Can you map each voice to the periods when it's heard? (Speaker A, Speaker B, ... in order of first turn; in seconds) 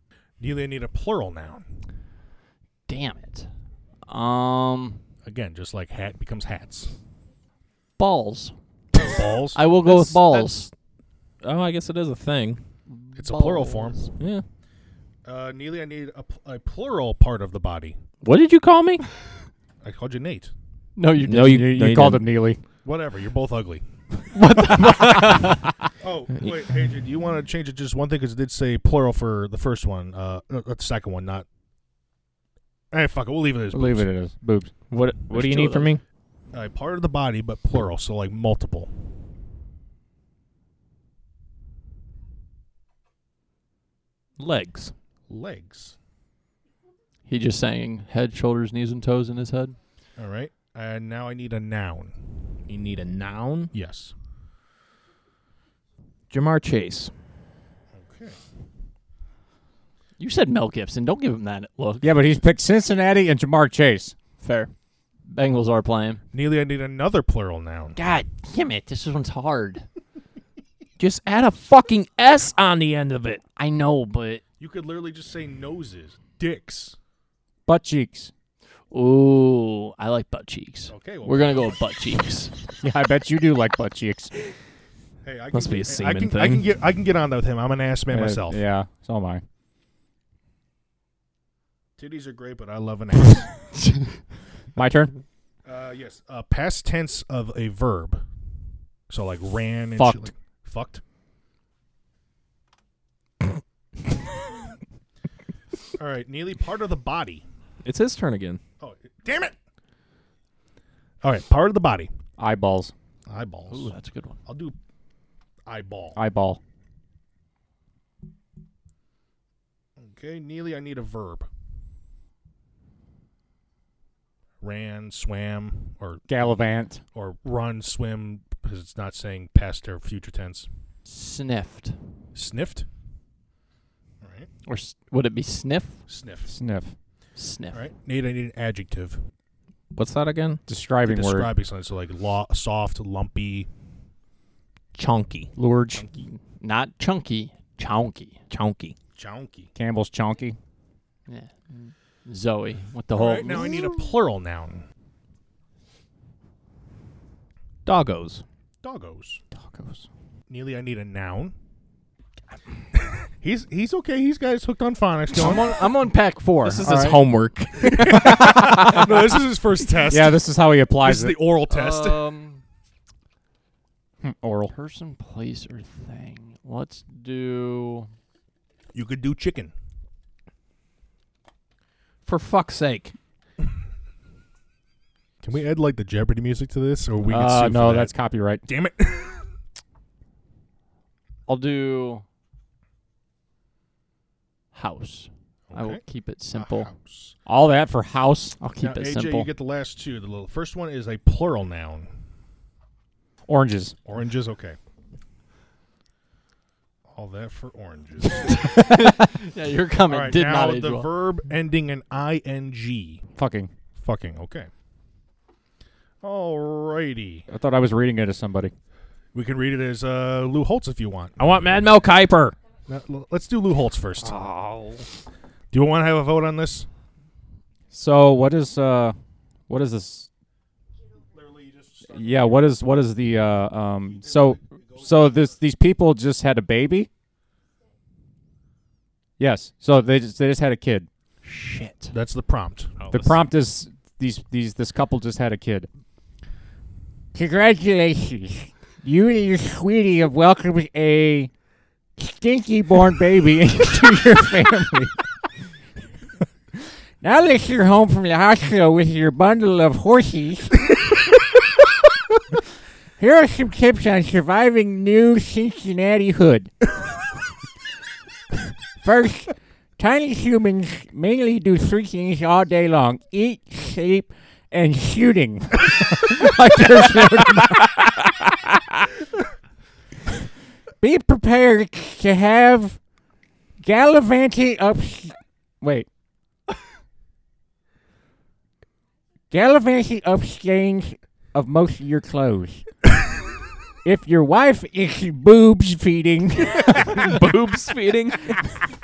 Speaker A: 0.4-1.6, 5.2-6.9, 9.0-9.6, 13.2-14.1, 15.2-18.0, 19.8-20.5, 22.8-23.8, 26.0-31.5, 32.9-34.1, 36.5-38.9, 45.3-46.0, 50.2-52.1, 53.7-54.1, 58.0-58.4, 66.3-68.0, 74.6-77.0, 80.9-81.8, 85.2-88.6, 92.0-93.5, 95.7-98.2, 99.1-101.0, 106.0-107.4, 108.8-109.5, 111.2-112.1, 113.3-113.9, 114.5-114.8, 115.7-116.2, 120.0-121.5, 124.6-126.3, 127.1-130.7, 132.3-132.9, 134.2-134.5, 136.1-136.5, 137.7-139.2, 141.1-143.7, 146.0-146.3, 149.2-149.7, 153.1-154.8, 158.8-159.4, 160.5-161.5, 163.4-165.8, 167.9-170.4, 171.0-172.2, 178.9-179.7, 185.4-188.1, 188.7-189.5, 195.7-196.0, 196.5-197.3, 198.8-202.1, 204.1-204.8, 207.1-208.7, 210.1-213.2, 214.0-214.7, 216.2-217.5, 219.3-221.4, 222.9-224.5, 225.7-226.9, 231.4-232.2, 242.1-242.9
Speaker B: 2.9-3.5, 4.1-5.0, 8.0-8.5, 9.6-10.7, 12.9-14.1, 21.0-21.6, 24.3-25.6, 47.3-49.8, 60.2-62.1, 64.4-64.7, 65.3-66.2, 68.0-69.8, 73.6-74.4, 78.9-82.5, 113.7-114.4, 131.1-132.0, 134.7-136.0, 137.4-137.8, 146.6-148.4, 151.3-154.0, 165.3-167.1, 171.7-172.6, 174.7-178.1, 191.5-192.2, 194.7-196.9, 198.6-199.5, 208.4-211.1, 241.4-242.1
Speaker C: 9.9-10.5, 11.4-12.6, 14.2-14.4, 18.2-19.1, 21.3-22.2, 34.9-36.0, 44.4-44.9, 52.7-53.7, 56.3-57.1, 71.0-73.4, 85.5-86.7, 107.8-108.6, 139.9-140.6, 144.9-145.5, 148.5-148.9, 157.9-158.4, 166.7-168.8, 182.3-183.1, 221.4-222.6, 224.2-225.1, 243.0-243.4, 297.0-298.6
Speaker D: 21.4-22.6, 33.7-34.7, 62.0-64.2, 77.7-78.3, 82.8-84.3, 88.1-89.4, 94.8-95.1, 112.4-112.9, 116.2-116.6, 126.3-127.0, 136.5-136.9, 140.7-141.5, 145.6-146.1, 149.8-150.6, 159.6-160.1, 168.0-169.1, 170.1-171.4, 174.2-174.7, 187.3-188.7, 197.5-198.6, 203.5-204.0, 213.4-213.7, 217.5-218.7, 227.9-229.2, 229.7-230.3, 232.1-237.1, 239.4-241.1, 243.1-245.9, 247.3-251.5, 252.2-255.2, 257.2-261.1, 263.2-266.7, 269.0-278.1, 278.7-279.0, 281.0-283.0, 283.8-286.1, 289.5-292.8, 294.1-297.4